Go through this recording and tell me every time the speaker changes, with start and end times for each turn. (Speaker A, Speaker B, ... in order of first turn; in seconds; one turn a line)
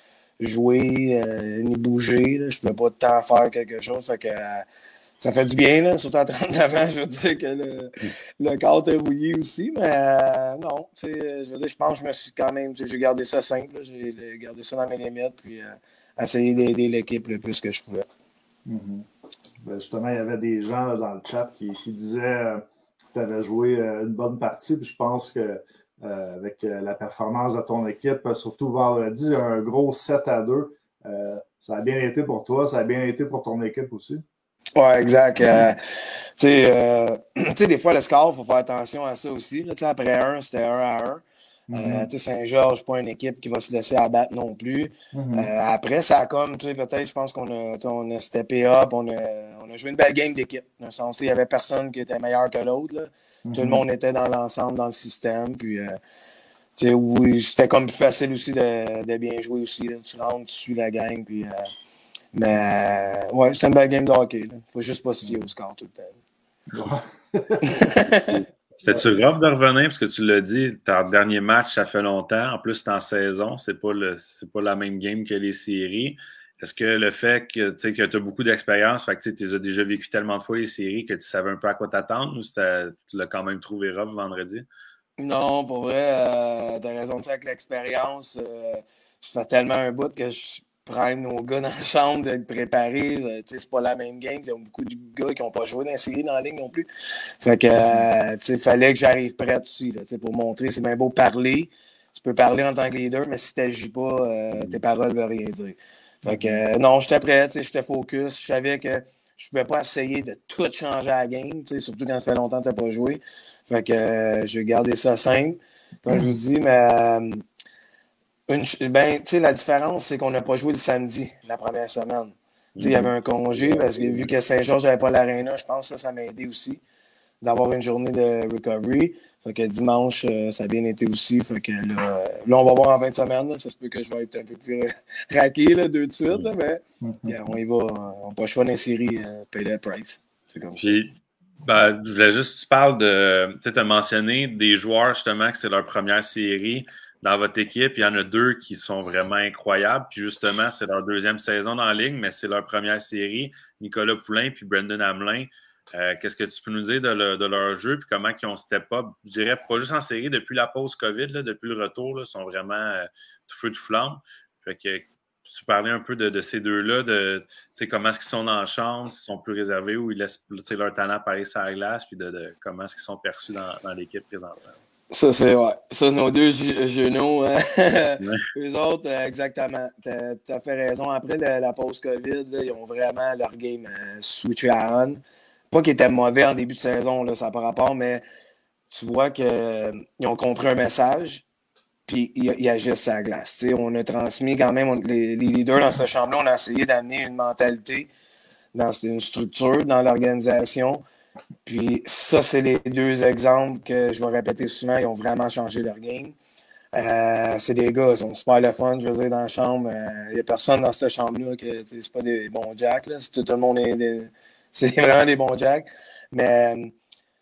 Speaker A: 0.4-4.7
Speaker A: 5.2-18.1
Speaker B: 18.7-19.1
Speaker B: 19.6-34.2
Speaker A: 34.8-41.2
Speaker B: 41.7-42.1
Speaker A: 41.7-56.0
Speaker B: 45.1-45.5
Speaker B: 53.5-53.8
Speaker A: 56.8-61.7
Speaker A: 62.3-66.2
Speaker B: 66.7-67.7
Speaker A: 67.6-68.4
Speaker C: 68.1-84.7
Speaker A: 85.2-96.9
Speaker A: 97.4-117.4
Speaker B: 106.3-106.6
Speaker A: 118.5-126.8
Speaker C: 122.8-124.3
Speaker A: 127.4-141.0
Speaker B: 137.0-137.4
Speaker C: 140.8-141.1
Speaker C: 141.6-174.8
Speaker A: 175.1-188.2
Speaker A: 188.9-191.4
Speaker A: 192.1-198.1
Speaker A: 198.7-201.0
Speaker A: 201.7-206.4
Speaker A: 206.9-216.9